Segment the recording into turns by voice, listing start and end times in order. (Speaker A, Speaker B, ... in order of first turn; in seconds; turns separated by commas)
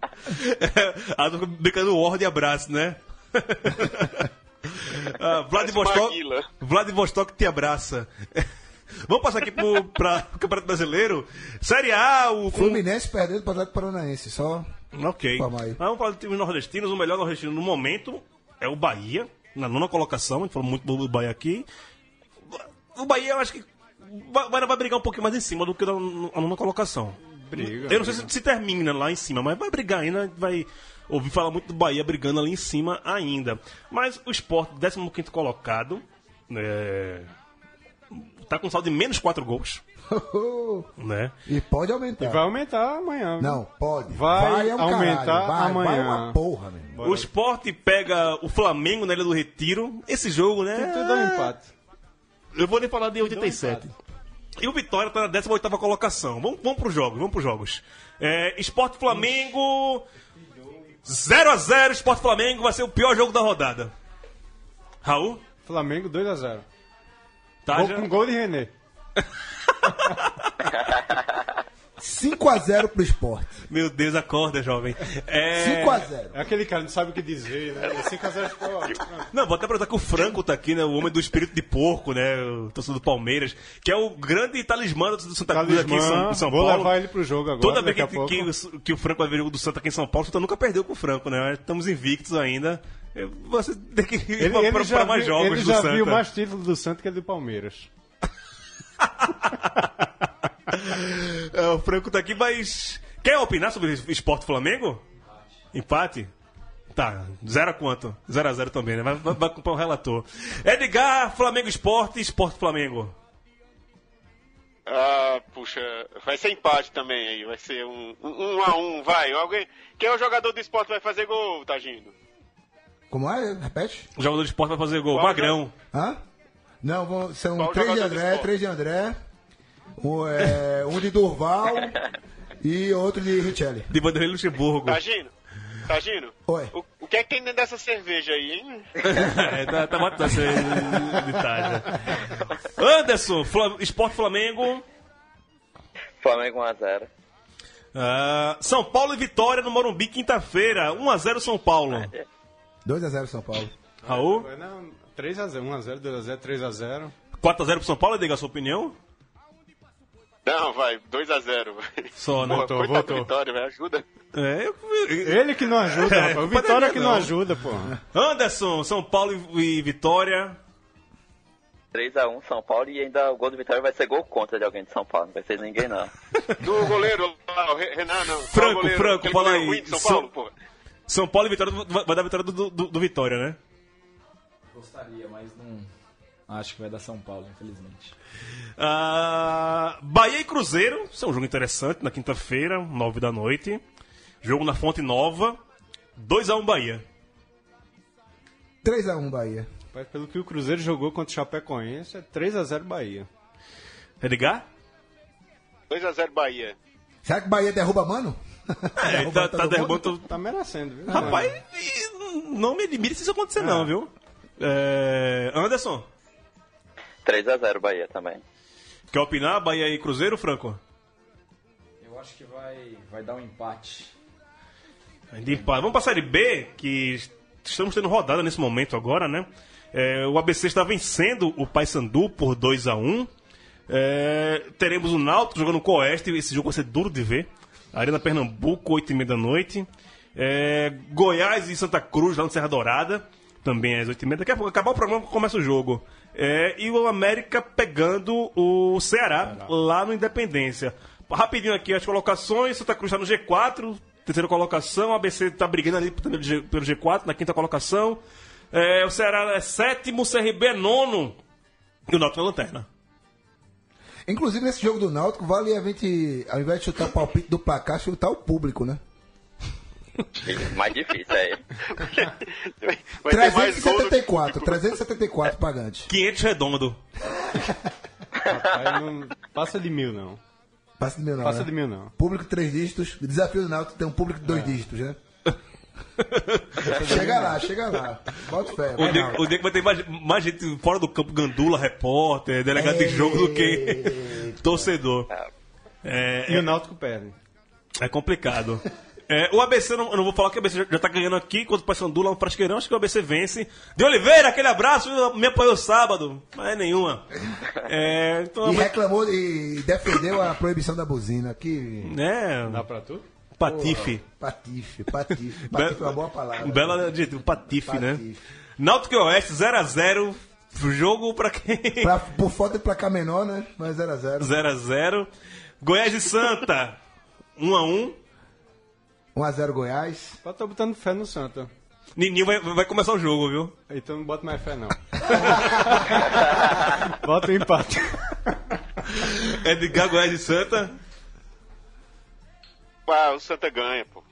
Speaker A: 0.2-8.5, Speaker B: 5.5-6.5, Speaker A: 9.0-12.8, Speaker C: 12.5-14.7, Speaker A: 14.9-21.6, Speaker C: 15.3-15.8, Speaker A: 22.5-37.3, Speaker D: 27.4-28.3, Speaker A: 38.1-39.8, Speaker C: 40.1-40.9, Speaker A: 41.0-41.3, Speaker C: 41.5-42.4, Speaker D: 42.2-46.4, Speaker C: 43.4-47.0, Speaker D: 46.9-47.3, Speaker A: 47.0-51.5, Speaker D: 50.8-51.7, Speaker A: 52.5-53.9, Speaker D: 53.2-53.9, Speaker A: 54.6-60.1, Speaker A: 61.0-63.9, Speaker A: 65.0-65.4, Speaker D: 65.7-66.6, Speaker A: 67.7-68.1, Speaker D: 67.7-68.7, Speaker A: 69.7-70.7, Speaker C: 72.0-73.6, Speaker A: 73.7-76.1, Speaker C: 75.5-76.4, Speaker D: 76.3-79.3, Speaker A: 79.3-87.0, Speaker D: 85.5-88.5, Speaker A: 87.6-96.2, Speaker D: 94.4-97.9, Speaker A: 99.0-99.9, Speaker A: 100.7-105.0, Speaker A: 105.7-106.3, Speaker A: 106.9-113.1, Speaker B: 114.9-122.1, Speaker C: 123.1-124.1, Speaker A: 124.2-125.7, Speaker B: 125.1-125.6, Speaker C: 125.9-126.2, Speaker C: 126.8-129.2, Speaker B: 127.6-128.5, Speaker C: 130.0-132.0, Speaker C: 132.6-133.9, Speaker A: 133.9-135.0, Speaker B: 134.8-135.3, Speaker B: 135.9-139.2, Speaker C: 136.5-136.7, Speaker A: 139.0-144.8, Speaker E: 146.2-147.1, Speaker A: 147.9-152.1, Speaker E: 151.9-152.2, Speaker C: 152.8-153.7, Speaker D: 154.0-157.1, Speaker A: 154.1-154.5, Speaker A: 157.4-158.9, Speaker B: 160.4-164.0, Speaker A: 162.2-162.8, Speaker D: 162.4-163.3, Speaker A: 164.3-167.3, Speaker D: 165.2-168.0, Speaker A: 168.1-170.6, Speaker E: 171.9-176.1, Speaker B: 176.6-180.5, Speaker A: 178.5-180.3, Speaker A: 181.1-183.6, Speaker F: 184.7-185.9, Speaker F: 186.5-188.1, Speaker A: 188.8-193.8, Speaker A: 194.4-195.6, Speaker A: 196.2-197.0, Speaker C: 198.8-199.7, Speaker D: 199.9-203.3, Speaker A: 204.2-204.6, Speaker B: 205.9-206.7, Speaker C: 207.2-210.1, Speaker A: 209.0-210.3, Speaker D: 210.2-211.5, Speaker C: 211.1-211.5, Speaker A: 211.1-216.1, Speaker D: 213.6-213.9, Speaker E: 217.2-218.4, Speaker A: 219.1-220.8, Speaker F: 222.0-224.1, Speaker A: 225.3-233.3, Speaker A: 233.9-261.4, Speaker A: 262.1-262.9, Speaker C: 264.3-269.0, Speaker E: 270.4-271.6, Speaker B: 271.9-274.8, Speaker C: 273.3-276.1, Speaker A: 276.1-277.0, Speaker C: 277.3-277.8, Speaker D: 278.4-280.4, Speaker C: 281.0-285.2, Speaker D: 281.4-282.1, Speaker D: 284.4-284.8, Speaker A: 286.2-287.3, Speaker C: 286.9-289.5, Speaker D: 286.9-287.6, Speaker A: 288.9-295.3, Speaker C: 292.7-294.9, Speaker A: 296.0-296.7, Speaker D: 296.5-297.4, Speaker A: 298.0-308.9, Speaker C: 308.6-312.1, Speaker A: 312.0-312.9, Speaker D: 312.7-313.2, Speaker A: 313.6-314.2, Speaker C: 313.6-317.1, Speaker A: 315.7-318.2, Speaker C: 317.8-318.4, Speaker A: 318.8-322.1, Speaker C: 322.0-324.5, Speaker A: 324.4-325.3, Speaker A: 325.8-327.0, Speaker A: 327.6-328.2, Speaker C: 329.3-330.4, Speaker D: 330.4-331.7, Speaker A: 332.1-333.7, Speaker D: 333.9-338.8, Speaker A: 339.2-340.9, Speaker B: 343.1-344.2